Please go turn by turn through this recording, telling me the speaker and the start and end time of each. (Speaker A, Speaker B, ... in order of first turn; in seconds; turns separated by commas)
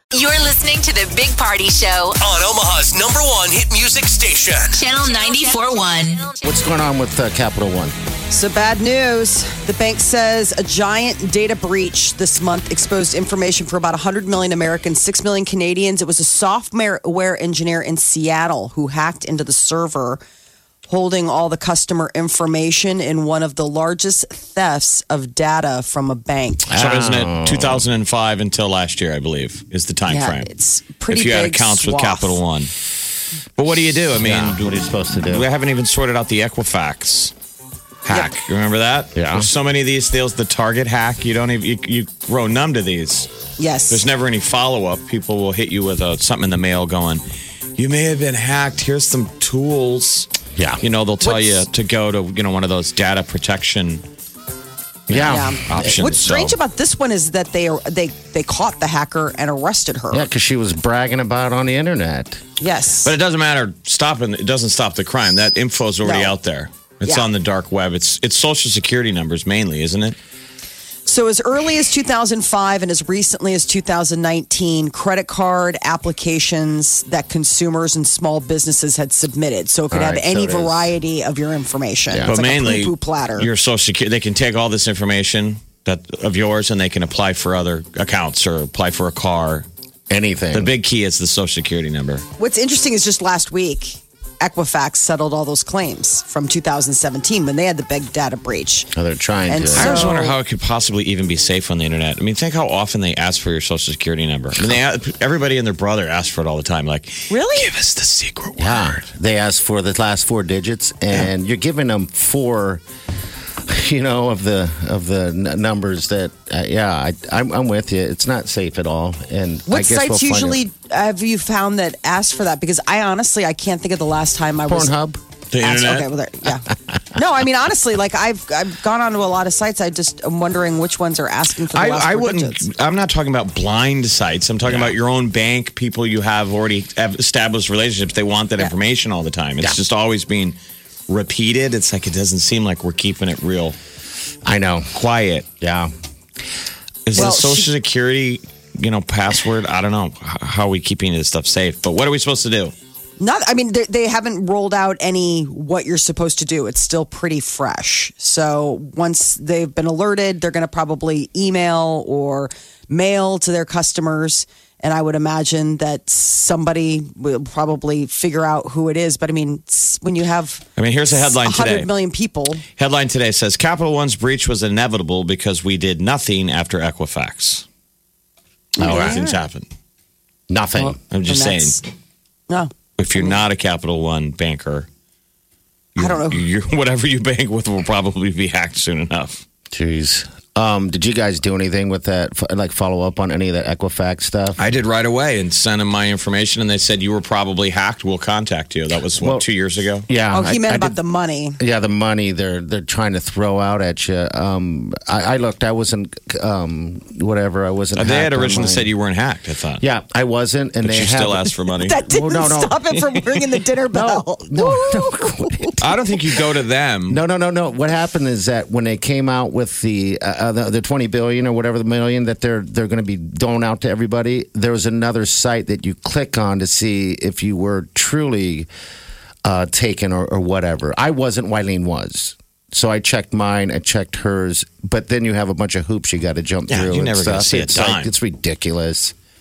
Speaker A: 0.1-2.2, Speaker B: 2.2-4.8, Speaker A: 4.7-6.3, Speaker C: 6.4-7.9, Speaker D: 8.3-20.2, Speaker D: 20.9-26.7, Speaker C: 26.7-27.8, Speaker E: 26.8-30.5, Speaker D: 30.1-32.4, Speaker E: 31.1-32.7, Speaker E: 33.6-37.3, Speaker C: 34.2-35.5, Speaker E: 38.0-43.3, Speaker C: 39.1-39.5, Speaker D: 43.6-44.0, Speaker E: 43.9-47.2, Speaker E: 47.8-50.3, Speaker C: 50.5-50.8, Speaker E: 50.8-54.0, Speaker D: 51.2-51.5, Speaker E: 55.1-56.6, Speaker C: 55.1-56.0, Speaker D: 55.2-60.3, Speaker C: 60.1-62.4, Speaker D: 62.6-63.1, Speaker E: 63.0-70.2, Speaker D: 66.0-66.3, Speaker D: 71.0-83.5, Speaker C: 79.9-80.9, Speaker E: 82.2-89.7, Speaker C: 90.1-90.7, Speaker E: 90.5-92.2, Speaker D: 92.4-98.9, Speaker C: 98.9-100.0, Speaker D: 99.5-100.3, Speaker E: 99.7-109.0, Speaker D: 107.3-107.7, Speaker C: 108.6-112.8, Speaker C: 113.6-120.6, Speaker D: 119.7-125.0, Speaker C: 124.7-125.2, Speaker E: 125.5-126.1, Speaker D: 125.6-132.6, Speaker E: 131.7-140.6, Speaker C: 134.6-134.9, Speaker E: 141.1-143.8, Speaker C: 144.4-144.9, Speaker E: 144.9-145.5, Speaker C: 145.6-145.9, Speaker E: 147.1-152.7, Speaker D: 147.1-147.7, Speaker D: 153.2-172.6, Speaker E: 170.8-171.9, Speaker E: 172.8-177.6, Speaker E: 178.8-179.7, Speaker D: 178.8-179.3, Speaker C: 178.8-179.2, Speaker C: 180.5-181.0, Speaker D: 180.8-181.8, Speaker E: 181.1-181.8, Speaker D: 182.5-183.4, Speaker E: 183.0-184.9, Speaker E: 185.9-189.4, Speaker D: 186.0-186.4, Speaker C: 189.7-194.6, Speaker E: 194.6-200.1, Speaker C: 199.2-199.4, Speaker C: 200.1-200.9, Speaker D: 200.3-201.6, Speaker C: 201.6-208.9, Speaker E: 207.9-209.8, Speaker C: 209.8-211.5, Speaker E: 210.8-212.0, Speaker D: 211.8-215.9, Speaker C: 212.1-212.9, Speaker C: 213.9-215.8, Speaker E: 215.8-217.2, Speaker C: 217.1-228.7, Speaker C: 229.4-239.1, Speaker E: 236.7-238.1